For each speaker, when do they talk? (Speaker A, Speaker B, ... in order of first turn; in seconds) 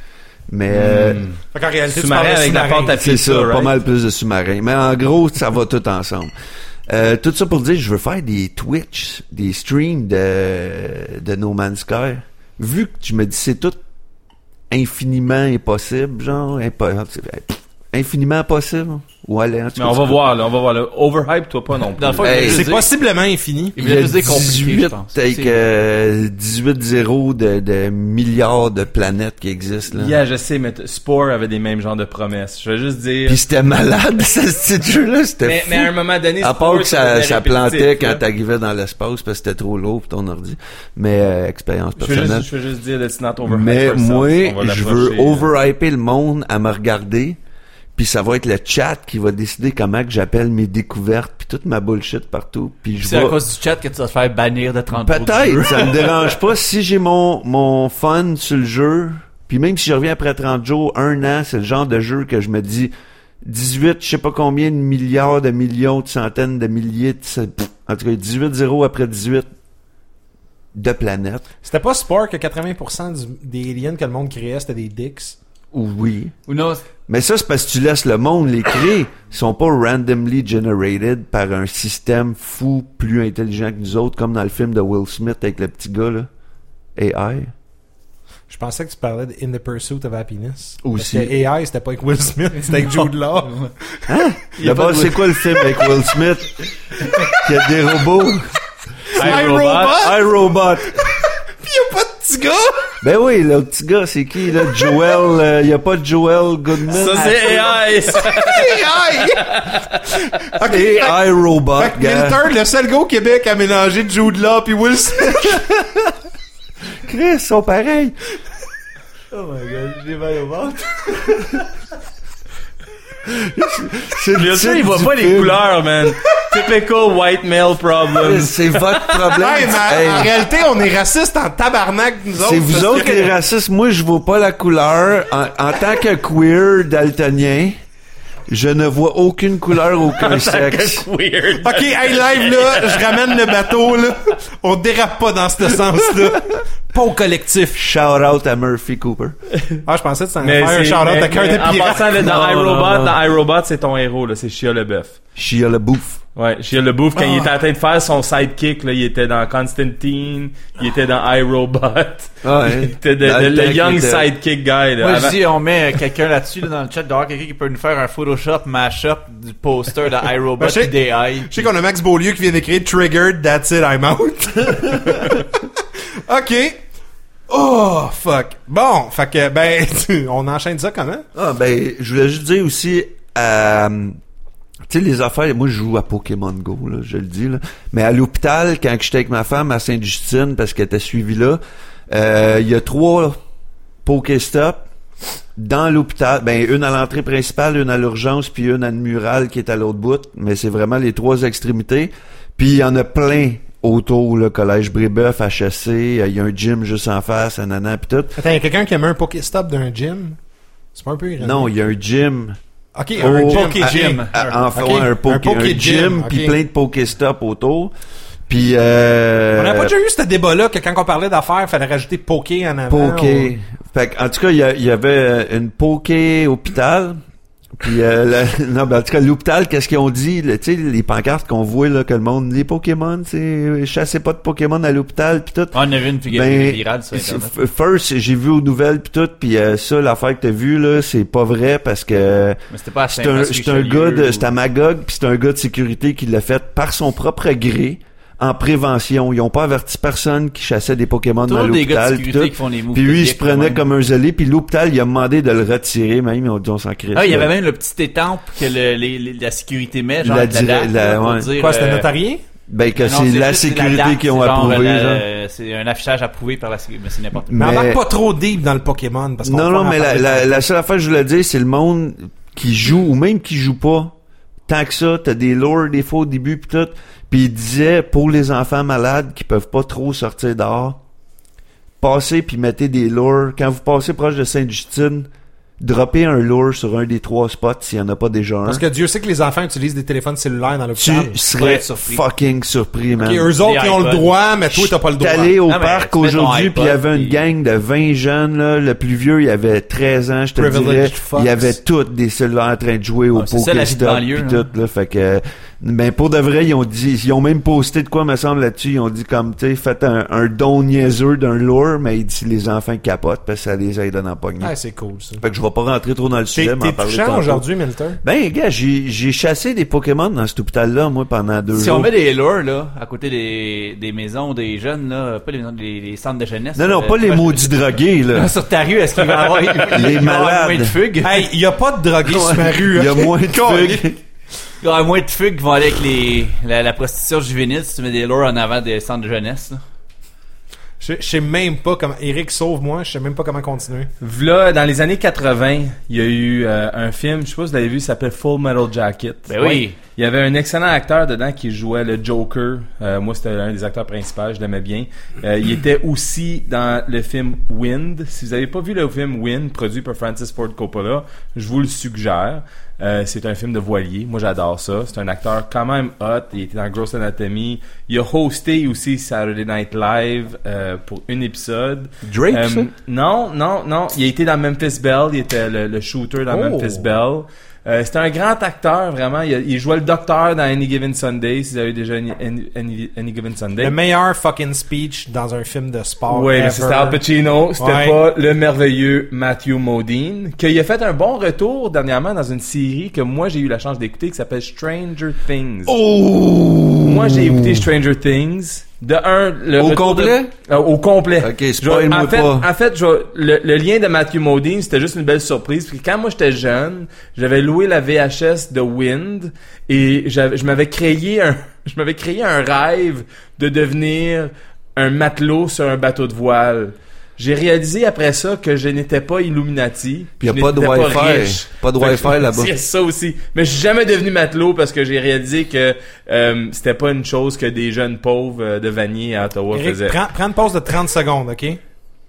Speaker A: 0.5-1.2, 3.0-6.3, 6.9-13.8, 14.7-20.2, 22.2-22.6, 23.8-30.1, 33.2-42.5, 43.4-47.4, 48.0-53.4, 54.9-62.9, 63.4-69.5, 70.7-71.5, 75.7-76.3, 77.1-86.3, 87.0-87.5, 90.8-91.3, 94.1-96.6, 97.3-98.5, 99.2-101.0, 103.0-107.8, 110.6-112.4, 115.4-116.1, 117.0-118.1, 123.2-125.7, 128.2-130.3, 132.4-137.8, 138.5-141.1, 147.8-149.3, 152.2-153.1, 155.3-156.2, 162.4-164.3, 175.0-175.3, 181.3-184.2, 184.9-191.6, 192.1-193.4, 194.0-194.8, 195.6-208.4, 211.4-212.6, 213.2-217.9, 218.5-219.9, 222.9-227.2, 227.8-235.8, 236.3-242.6, 243.1-257.5, 260.2-261.5, 262.7-265.2, 267.4-268.0, 269.4-274.1, 274.7-281.0, 282.0-285.3, 285.8-288.8, 290.9-293.5, 294.7-314.7, 315.4-317.6, 318.2-322.1, 326.8-328.5, 329.8-330.9, 332.2-334.2, 372.2-372.9, 395.9-397.9, 399.8-400.5, 401.4-402.7, 420.4-422.7
Speaker B: 0.7-3.8, 19.8-22.5, 29.9-33.4, 35.4-38.2, 42.0-45.5, 99.2-100.1, 106.9-110.1, 124.3-128.7, 140.1-143.6, 150.4-155.2, 156.3-165.3, 344.2-383.9, 386.3-395.9, 397.0-430.2
Speaker C: 1.5-3.0, 22.4-24.5, 71.6-75.4, 88.5-94.1, 97.0-97.4, 99.1-100.3, 100.9-103.0, 107.0-115.7, 129.0-133.3, 141.6-147.8, 149.8-152.3, 170.6-170.9, 171.5-175.7, 176.2-176.8, 177.5-181.2, 208.4-210.4, 210.9-211.7, 212.9-216.6, 219.6-223.5, 261.6-262.4, 267.5-270.6, 288.6-291.4, 293.2-295.6, 300.6-301.7, 314.6-315.4, 316.5-318.2, 331.2-334.1, 341.0-344.1, 376.5-377.1, 383.8-387.2, 387.8-388.2, 429.7-431.8
Speaker D: 21.9-22.9, 23.8-25.6, 53.0-56.3, 76.5-76.8, 92.7-93.7, 94.6-95.3, 119.3-121.6, 165.0-171.7, 213.2-214.6, 235.7-237.5, 242.7-244.5, 251.5-253.8, 257.1-262.1, 263.0-267.8, 291.6-292.2, 293.6-294.4, 295.7-297.4, 303.3-304.6, 321.7-327.7, 328.3-331.5, 334.8-339.8, 349.5-349.9